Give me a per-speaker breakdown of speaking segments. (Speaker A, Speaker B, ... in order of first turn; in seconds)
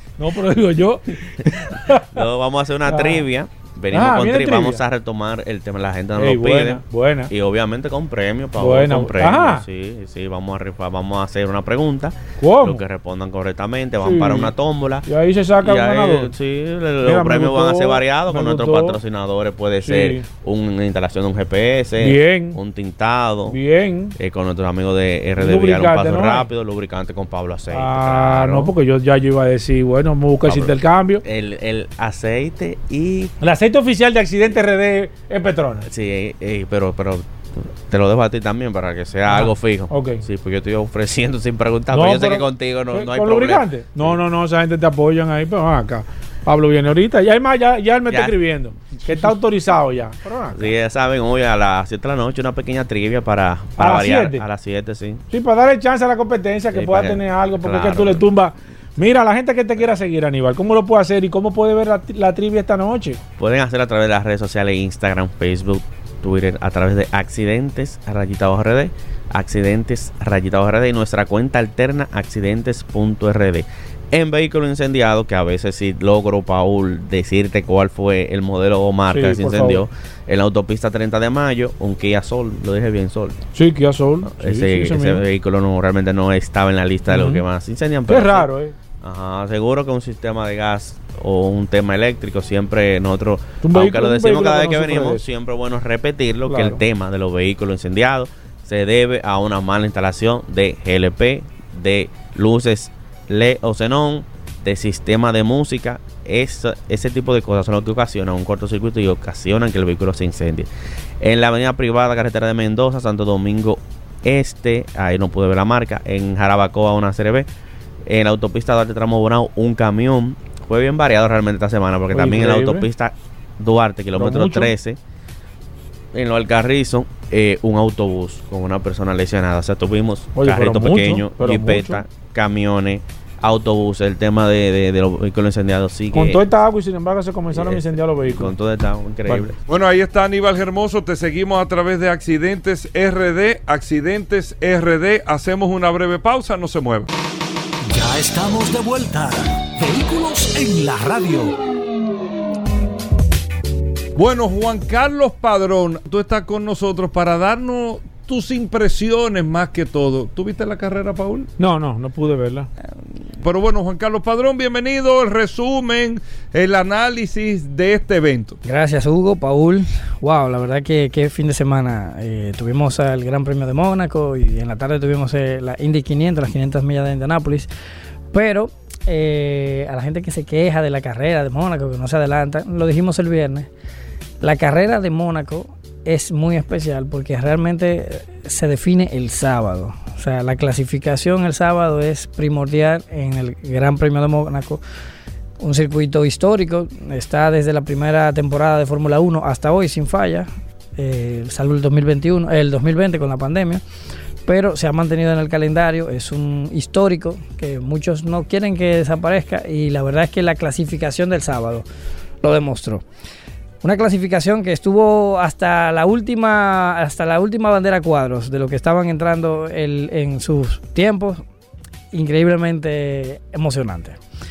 Speaker A: 0.2-2.2, 2.9-3.2, 3.9-4.8, 6.2-7.3, 8.6-9.6, 12.4-12.8, 14.0-14.5, 15.0-16.3, 17.0-19.0, 19.8-20.2, 22.0-22.6, 23.5-24.1, 25.4-26.5, 27.7-31.2, 33.4-35.9, 39.3-40.2, 41.9-50.7, 53.8-54.4, 55.3-63.2, 79.1-79.8, 83.5-85.2, 87.1-87.4, 88.1-88.7, 93.6-95.2, 96.5-96.8, 122.1-122.9, 124.1-124.7, 130.3-132.0, 136.1-138.5, 161.6-162.7
Speaker B: 2.1-15.0, 15.6-23.6, 24.2-28.7, 30.4-33.3, 35.9-44.2, 48.1-48.4, 50.5-55.2, 56.7-58.3, 63.4-83.4, 84.2-88.5, 89.0-110.7, 111.2-117.5, 118.1-125.0, 126.1-136.4, 137.5-139.6
Speaker C: 139.7-147.1, 154.2-161.5, 163.4-168.6
Speaker D: 147.9-151.6
Speaker E: 168.6-177.7, 178.3-183.7, 184.4-194.8, 195.6-203.8, 204.4-211.8, 212.4-213.0, 213.8-221.4, 222.1-224.2